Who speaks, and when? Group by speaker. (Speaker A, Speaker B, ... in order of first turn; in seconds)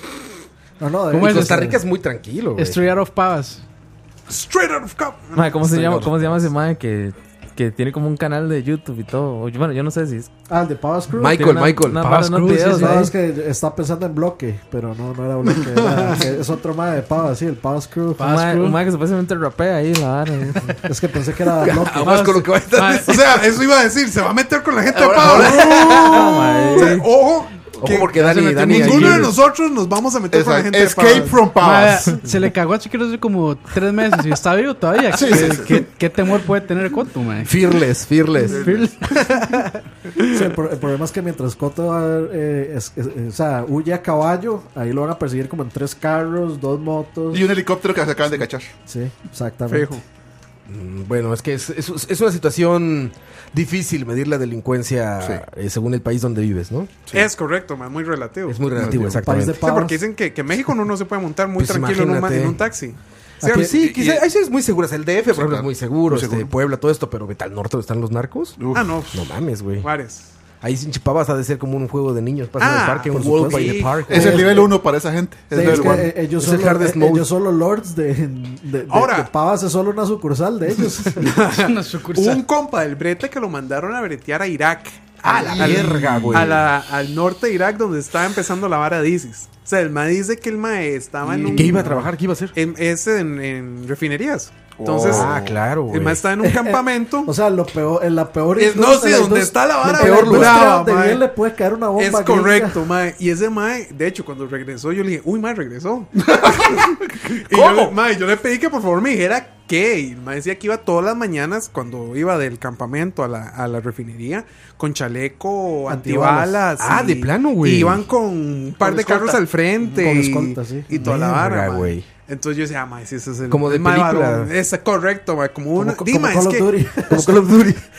Speaker A: 0.8-1.8, 5.8-6.1, 10.5-11.6, 12.7-18.3, 20.8-22.4, 40.2-47.5, 48.9-50.0, 58.9-60.0, 63.4-63.7, 73.1-74.8, 75.5-81.4, 96.4-102.8, 115.9-116.6, 118.8-119.3, 119.9-120.9, 125.8-127.7
Speaker B: 1.1-1.6, 2.6-3.6, 12.0-13.1, 18.2-18.8, 22.1-23.1, 28.4-29.3, 31.6-37.6, 38.5-39.7, 81.4-82.4
Speaker C: 1.1-2.9, 11.2-12.0, 21.6-23.4, 24.9-26.3, 27.8-29.4, 37.4-38.7, 50.7-57.0, 58.5-59.6, 61.6-62.6, 63.4-68.6, 69.1-69.9, 70.6-74.6, 75.6-77.3, 85.2-86.6, 91.5-92.5, 95.1-96.3, 99.8-100.7, 116.8-118.0, 121.0-122.1, 123.5-124.5, 127.1-127.8
Speaker D: 4.3-5.6, 23.1-31.5, 49.7-50.0, 57.1-58.6, 59.6-64.2, 68.7-70.3, 72.6-74.4, 78.9-79.3, 81.2-92.0, 92.5-97.3, 98.6-101.3, 102.0-106.9, 107.5-126.7
Speaker E: 5.3-10.3, 11.3-13.1, 18.2-20.8, 26.0-27.1
Speaker F: 25.3-25.9, 30.3-32.2, 35.1-35.9, 38.5-39.0, 47.3-48.7, 58.8-59.2, 65.3-66.5, 68.6-69.0, 74.1-76.2, 85.3-86.6, 91.2-92.0, 94.8-95.6, 106.2-107.8, 120.9-121.2